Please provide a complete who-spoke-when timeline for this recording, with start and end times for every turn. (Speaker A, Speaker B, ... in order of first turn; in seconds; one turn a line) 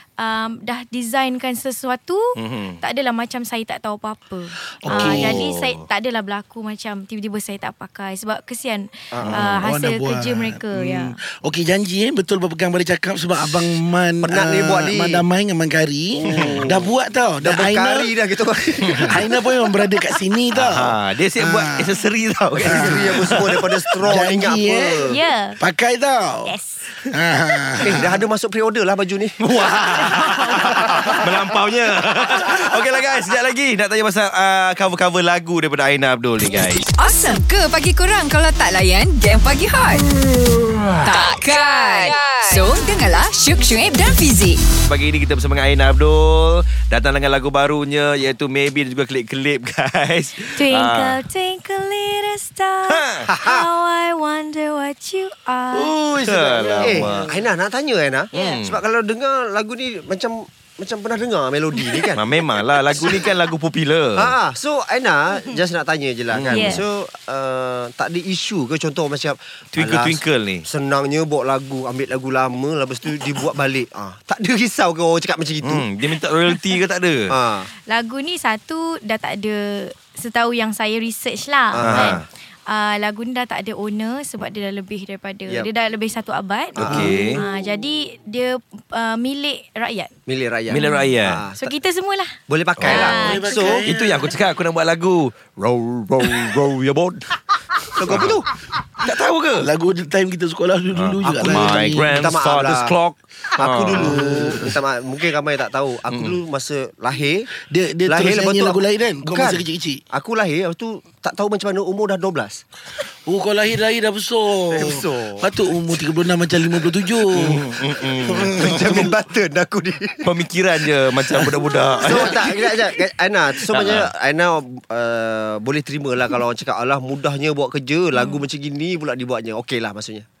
Speaker A: 0.2-2.3
Speaker B: 2.4-2.8
Speaker A: 2.8-11.1
Speaker C: 4.8-5.4
Speaker B: 4.9-5.8
Speaker D: 9.1-9.5
Speaker C: 9.4-22.0
Speaker D: 14.2-15.2
Speaker D: 16.3-16.9
Speaker B: 16.3-16.6
Speaker D: 17.4-20.0
Speaker B: 18.8-19.1
Speaker B: 20.5-23.5
Speaker D: 22.6-25.2
Speaker C: 22.6-23.4
Speaker C: 24.0-26.5
Speaker A: 25.1-25.6
Speaker A: 26.4-26.8
Speaker C: 27.1-28.2
Speaker D: 27.8-29.4
Speaker B: 29.4-36.9
Speaker E: 37.0-40.1
Speaker E: 41.0-44.6
Speaker B: 44.9-51.2
Speaker A: 50.5-55.9
Speaker B: 52.8-53.3
Speaker D: 53.3-53.7
Speaker C: 55.7-57.3
Speaker B: 56.1-57.3
Speaker D: 56.8-62.2
Speaker B: 58.3-58.8
Speaker A: 58.3-58.6
Speaker B: 62.1-64.3
Speaker A: 62.9-63.2
Speaker D: 64.2-75.8
Speaker B: 66.3-66.8
Speaker A: 66.5-66.8
Speaker B: 69.7-70.6
Speaker B: 75.6-77.3
Speaker D: 77.3-77.7
Speaker A: 77.9-90.1
Speaker D: 81.7-82.2
Speaker B: 81.8-82.2
Speaker D: 86.8-87.4
Speaker B: 86.8-87.4
Speaker D: 90.3-91.7
Speaker B: 90.7-91.4
Speaker A: 90.7-93.8
Speaker D: 92.5-93.8
Speaker B: 92.8-93.2
Speaker C: 93.1-94.3
Speaker B: 93.7-98.4
Speaker D: 97.9-98.5
Speaker B: 99.0-99.7
Speaker C: 99.6-102.3
Speaker B: 100.9-104.2
Speaker D: 101.2-102.9
Speaker D: 103.5-107.5
Speaker C: 103.9-104.7
Speaker B: 106.1-106.4
Speaker C: 107.7-110.0
Speaker D: 108.0-112.6
Speaker C: 113.2-117.6
Speaker D: 114.7-115.5
Speaker B: 117.3-119.1
Speaker D: 117.5-120.2
Speaker C: 118.5-119.1
Speaker B: 120.2-122.8
Speaker D: 121.3-130.2
Speaker B: 123.7-124.1
Speaker A: 128.2-128.4